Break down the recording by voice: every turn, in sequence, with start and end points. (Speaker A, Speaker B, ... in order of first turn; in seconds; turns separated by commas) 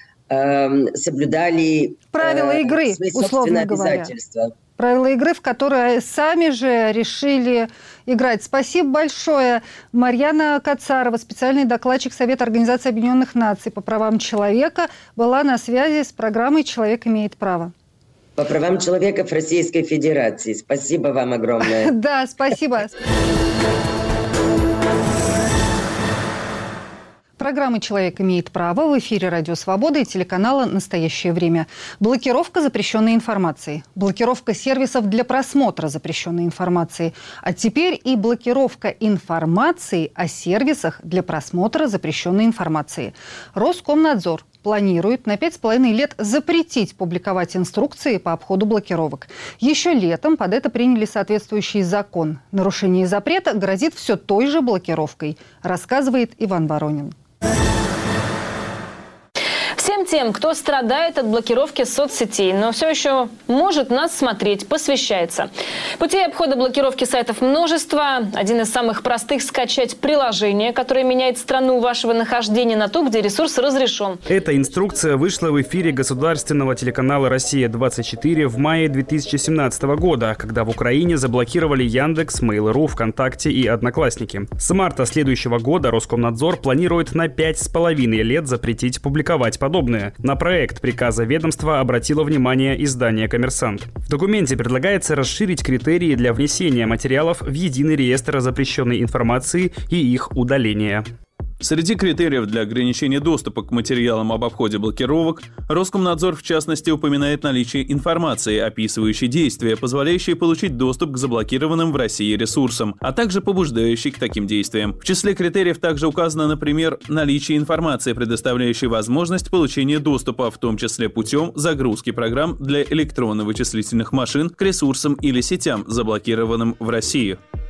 Speaker A: 0.3-4.5, Speaker B: 2.1-4.1, Speaker B: 4.8-17.7, Speaker A: 18.4-21.9, Speaker B: 21.7-22.9, Speaker B: 27.4-57.1, Speaker C: 59.8-74.2, Speaker D: 74.3-101.0, Speaker E: 101.6-127.4